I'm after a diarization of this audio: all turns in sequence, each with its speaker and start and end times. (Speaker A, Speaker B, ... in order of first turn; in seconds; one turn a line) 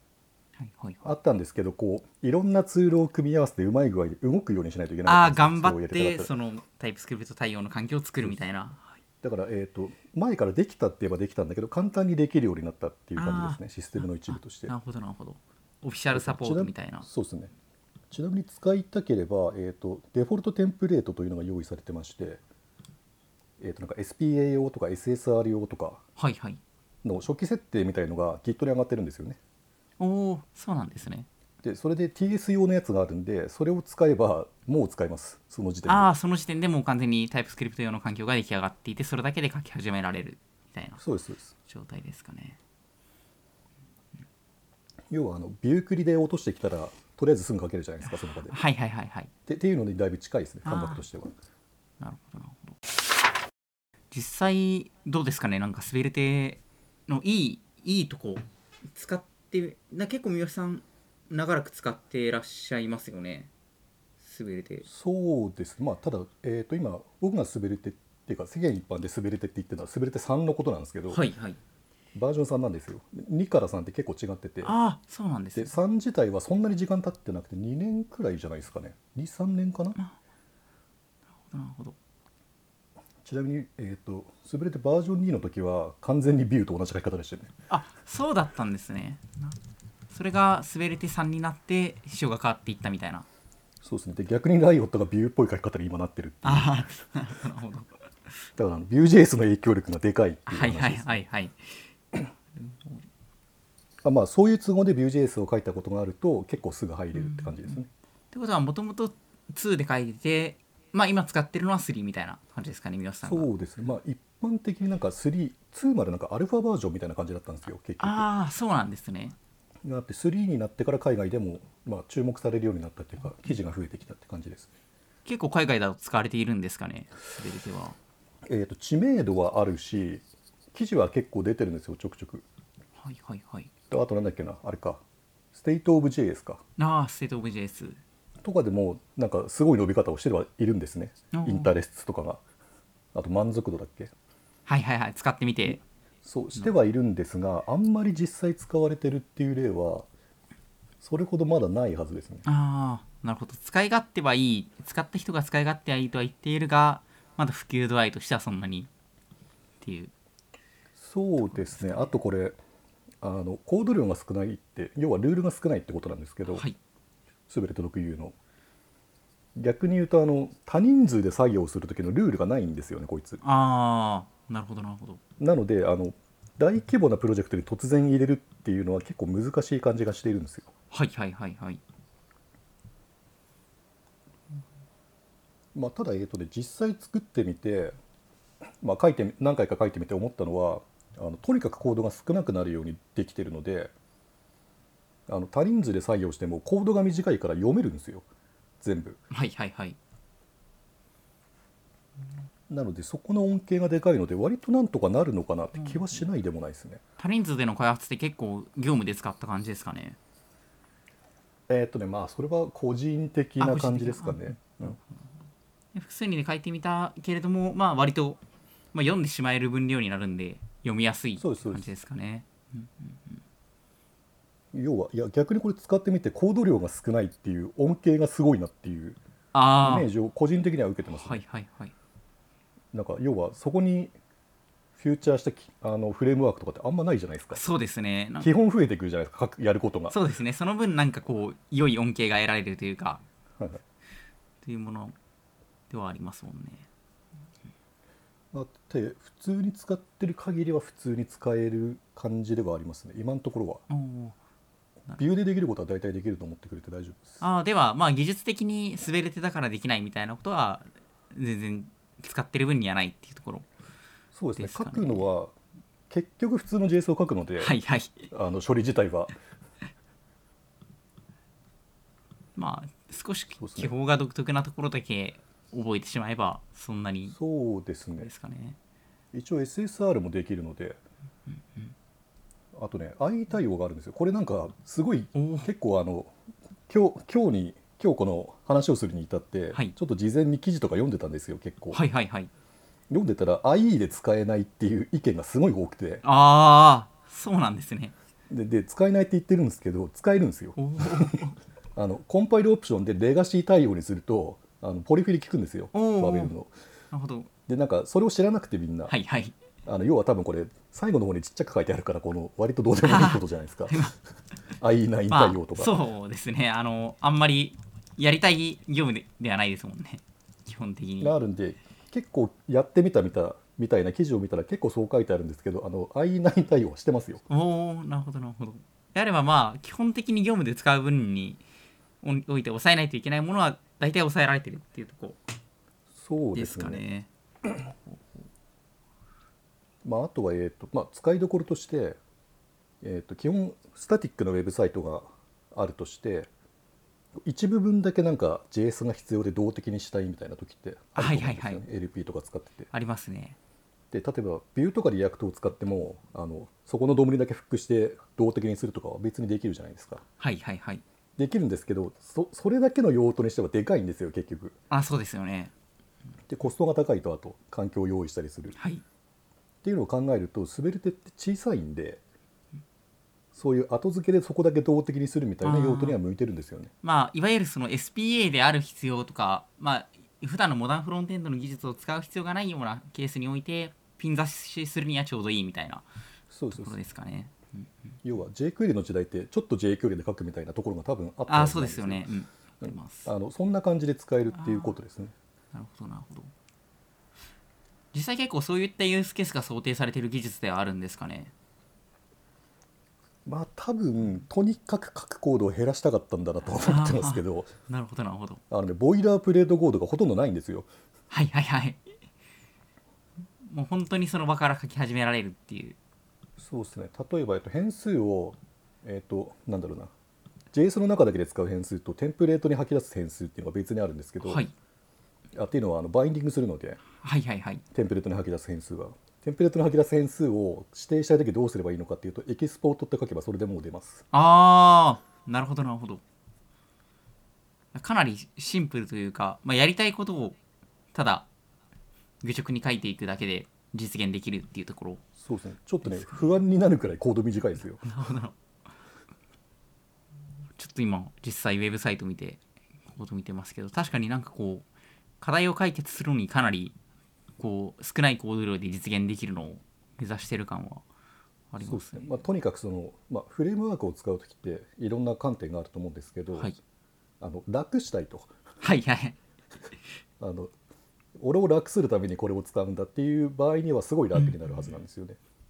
Speaker A: 0.6-1.1
Speaker B: 1.0-6.3
Speaker A: 5.1-8.8
Speaker B: 9.2-14.7
Speaker A: 13.2-13.6
Speaker A: 14.3-17.1
Speaker B: 16.1-17.5
Speaker B: 18.1-22.4
Speaker B: 23.6-26.0
Speaker A: 26.2-26.6
Speaker B: 27.0-29.4
Speaker A: 30.0-31.3
Speaker B: 31.6-36.1
Speaker A: 35.9-41.0
Speaker B: 41.0-41.5
Speaker A: 41.7-42.6
Speaker B: 45.1-48.6
Speaker A: 48.1-49.3
Speaker B: 49.5-51.3
Speaker A: 50.6-51.0
Speaker A: 52.0-52.8
Speaker A: 54.1-63.5
Speaker A: 64.2-64.9
Speaker B: 64.8-71.2
Speaker A: 71.1-71.6
Speaker B: 72.1-74.8
Speaker A: 74.6-75.7
Speaker B: 75.5-80.0
Speaker A: 81.5-82.0
Speaker B: 83.2-87.5
Speaker A: 87.7-89.6
Speaker A: 90.1-93.3
Speaker B: 93.8-96.8
Speaker A: 96.4-98.0
Speaker B: 98.6-101.2
Speaker A: 100.5-101.9
Speaker A: 102.6-103.0
Speaker B: 104.0-107.9
Speaker A: 107.1-107.8
Speaker A: 108.3-113.5
Speaker B: 113.2-118.3
Speaker A: 118.0-119.4
Speaker B: 119.8-124.7
Speaker A: 125.3-128.0
Speaker B: 128.5-130.2
Speaker B: 130.7-132.4
Speaker A: 133.0-133.7
Speaker B: 133.9-135.0
Speaker B: 135.5-136.6
Speaker A: 136.8-138.0
Speaker B: 138.4-142.4
Speaker A: 141.3-141.7
Speaker B: 143.1-144.1
Speaker A: 144.7-145.8
Speaker B: 146.2-150.1
Speaker B: 151.0-152.4
Speaker A: 152.4-158.9
Speaker A: 159.8-160.1
Speaker B: 161.0-162.6
Speaker A: 161.4-162.2
Speaker B: 163.2-166.7
Speaker A: 166.5-166.8
Speaker B: 167.5-168.3
Speaker B: 169.6-173.4
Speaker A: 173.4-175.2
Speaker B: 175.4-180.7
Speaker A: 180.9-181.8
Speaker B: 185.7-187.9
Speaker B: 188.8-193.9
Speaker B: 195.3-198.3
Speaker B: 198.8-199.2
Speaker A: 199.3-200.0
Speaker B: 202.7-207.0
Speaker A: 205.8-206.2
Speaker A: 207.2-210.2
Speaker B: 211.7-215.0
Speaker A: 213.6-215.2
Speaker A: 215.9-218.4
Speaker A: 218.9-223.4
Speaker B: 221.4-221.9
Speaker B: 224.7-229.2
Speaker A: 229.5-230.1
Speaker B: 229.8-231.4
Speaker A: 231.1-231.9
Speaker B: 232.9-234.1
Speaker B: 235.0-237.6
Speaker A: 237.5-238.5
Speaker B: 238.4-240.2
Speaker A: 240.1-243.2
Speaker A: 244.6-245.2
Speaker A: 245.9-246.9
Speaker B: 248.5-253.8
Speaker A: 253.9-254.4
Speaker B: 255.2-257.4
Speaker A: 257.4-263.7
Speaker B: 264.3-265.5
Speaker A: 264.6-265.3
Speaker B: 266.1-267.8
Speaker A: 267.6-268.3
Speaker B: 268.3-269.3
Speaker A: 272.6-277.4
Speaker B: 273.6-273.9
Speaker B: 277.3-278.3
Speaker A: 278.2-278.8
Speaker B: 279.3-281.0
Speaker B: 282.7-286.3
Speaker A: 285.4-285.7
Speaker B: 286.9-292.0
Speaker A: 291.9-292.5
Speaker B: 293.1-296.2
Speaker A: 296.2-298.1
Speaker B: 298.5-301.4
Speaker A: 300.8-301.6
Speaker B: 302.0-306.7
Speaker A: 305.9-306.5
Speaker A: 307.1-307.5
Speaker B: 307.7-309.1
Speaker A: 309.1-309.6
Speaker B: 309.9-314.1
Speaker A: 313.1-314.1
Speaker B: 314.8-316.0
Speaker A: 315.3-321.4
Speaker B: 321.2-327.4
Speaker A: 327.5-331.6
Speaker A: 332.2-335.4
Speaker B: 336.1-337.0
Speaker A: 336.6-337.3
Speaker B: 340.0-342.2
Speaker B: 343.0-346.5
Speaker B: 347.4-352.9
Speaker A: 351.2-351.9
Speaker A: 352.9-353.6
Speaker B: 354.1-360.2
Speaker A: 360.4-361.0
Speaker B: 361.4-364.8
Speaker A: 364.9-365.7
Speaker B: 366.5-368.8
Speaker A: 368.8-369.0
Speaker B: 369.8-372.2
Speaker B: 373.5-376.9
Speaker A: 375.6-376.2
Speaker A: 377.0-386.1
Speaker B: 386.5-387.0
Speaker A: 386.7-388.1
Speaker B: 388.2-392.3
Speaker A: 391.5-393.3
Speaker B: 392.8-395.3
Speaker A: 394.5-394.9
Speaker A: 395.7-396.5
Speaker A: 398.1-401.5
Speaker B: 403.5-407.7
Speaker A: 406.8-408.6
Speaker B: 408.7-410.9
Speaker A: 411.3-412.1
Speaker A: 413.6-416.0
Speaker B: 416.6-420.1
Speaker B: 420.7-424.6
Speaker A: 424.4-424.7
Speaker B: 425.5-427.0
Speaker A: 427.2-427.8
Speaker B: 427.9-434.2
Speaker A: 434.3-436.2
Speaker A: 437.9-440.6
Speaker A: 441.1-441.5
Speaker A: 442.4-445.2
Speaker B: 445.4-448.1
Speaker A: 446.1-446.5
Speaker A: 448.0-448.6
Speaker A: 450.8-454.9
Speaker A: 455.4-456.9
Speaker A: 457.6-461.0
Speaker A: 461.7-462.3
Speaker B: 461.8-466.7
Speaker B: 467.4-468.5
Speaker A: 468.8-469.4
Speaker B: 470.4-470.7
Speaker B: 471.4-475.4
Speaker A: 474.4-474.9